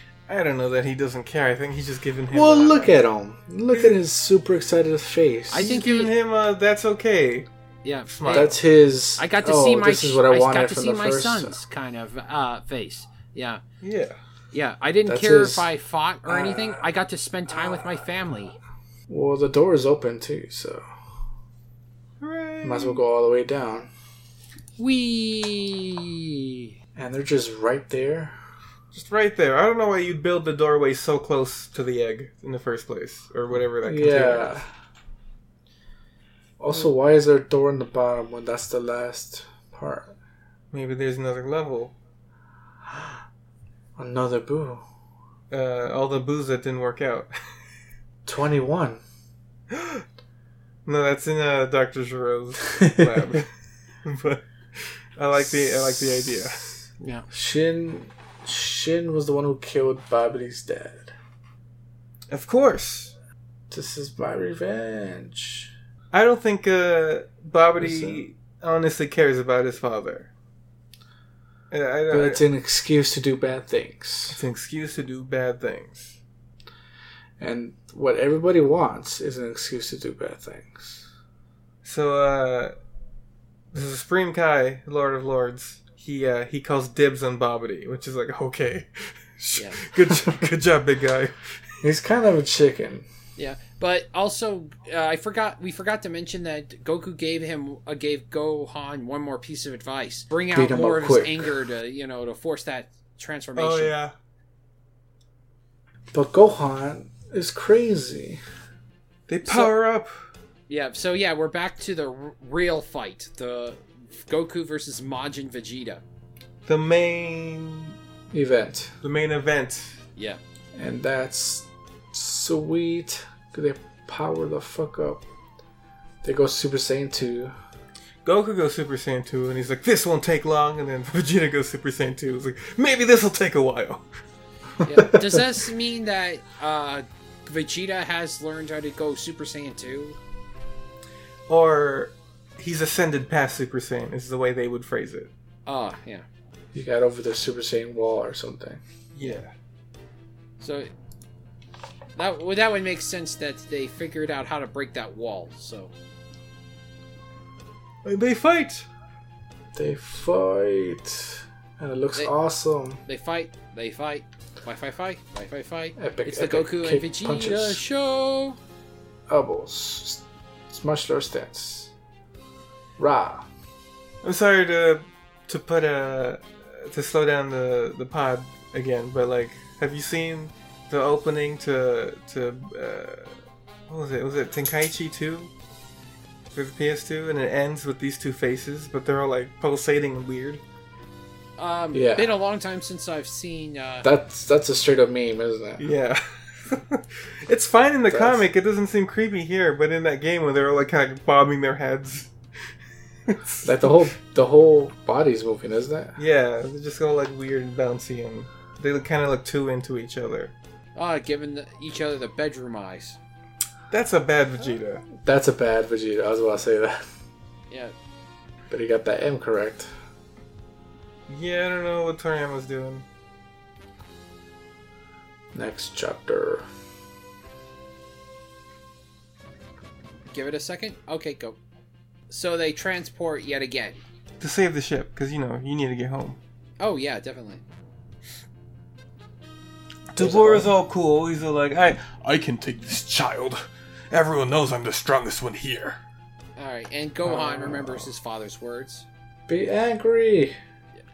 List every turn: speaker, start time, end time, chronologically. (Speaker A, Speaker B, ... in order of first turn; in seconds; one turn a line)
Speaker A: 0.3-3.0
Speaker B: 2.3-5.7
Speaker C: 5.5-6.1
Speaker A: 5.5-7.5
Speaker C: 7.8-8.6
Speaker A: 8.1-8.6
Speaker B: 8.3-11.6
Speaker C: 9.2-13.6
Speaker A: 13.8-14.2
Speaker C: 14.5-18.6
Speaker B: 15.1-15.7
Speaker B: 16.3-16.8
Speaker B: 19.1-20.9
Speaker A: 22.2-23.0
Speaker B: 22.6-23.9
Speaker C: 24.8-26.7
Speaker B: 27.0-28.4
Speaker A: 28.9-34.6
Speaker B: 33.8-34.7
Speaker B: 36.6-40.1
Speaker A: 40.7-41.9
Speaker B: 44.0-44.8
Speaker A: 45.5-47.3
Speaker B: 48.3-49.0
Speaker A: 49.7-50.0
Speaker A: 50.9-53.5
Speaker B: 52.8-53.1
Speaker A: 54.0-56.7
Speaker B: 55.5-56.5
Speaker C: 57.0-57.3
Speaker B: 57.3-61.1
Speaker A: 62.3-63.1
Speaker B: 63.7-65.7
Speaker A: 66.1-70.3
Speaker B: 67.8-68.2
Speaker A: 71.7-72.4
Speaker B: 72.1-74.4
Speaker A: 74.3-76.2
Speaker B: 77.4-81.1
Speaker A: 81.8-82.8
Speaker A: 83.7-91.5
Speaker C: 89.5-89.8
Speaker B: 91.8-93.1
Speaker C: 93.4-103.9
Speaker B: 100.5-101.5
Speaker A: 103.6-104.1
Speaker B: 106.1-108.4
Speaker A: 109.3-110.1
Speaker C: 109.5-109.7
Speaker C: 110.7-116.0
Speaker A: 116.7-118.0
Speaker B: 118.3-118.9
Speaker A: 119.0-120.0
Speaker B: 120.8-125.2
Speaker B: 126.2-127.5
Speaker A: 128.2-134.1
Speaker C: 134.8-140.2
Speaker A: 141.5-145.3
Speaker C: 145.7-146.3
Speaker B: 146.7-148.8
Speaker A: 149.1-149.5
Speaker C: 150.6-150.9
Speaker C: 152.2-155.9
Speaker A: 158.0-158.9
Speaker B: 159.8-163.0
Speaker C: 163.1-168.6
Speaker B: 166.0-167.8
Speaker B: 169.3-171.9
Speaker B: 173.0-173.5
Speaker A: 174.2-183.4
Speaker A: 183.9-185.5
Speaker A: 186.5-190.6
Speaker C: 191.6-194.1
Speaker B: 191.9-192.3
Speaker B: 194.0-195.8
Speaker A: 195.8-202.3
Speaker B: 198.1-198.5
Speaker A: 203.3-204.1
Speaker B: 203.6-206.2
Speaker A: 206.2-210.5
Speaker C: 211.0-213.2
Speaker A: 213.9-215.1
Speaker B: 215.2-217.0
Speaker B: 218.7-219.9
Speaker A: 221.3-223.1
Speaker B: 225.5-226.7
Speaker C: 230.3-231.6
Speaker C: 232.3-234.0
Speaker A: 234.4-236.4
Speaker C: 236.8-237.6
Speaker A: 240.1-246.0
Speaker B: 240.2-240.7
Speaker C: 246.6-249.1
Speaker B: 249.5-250.6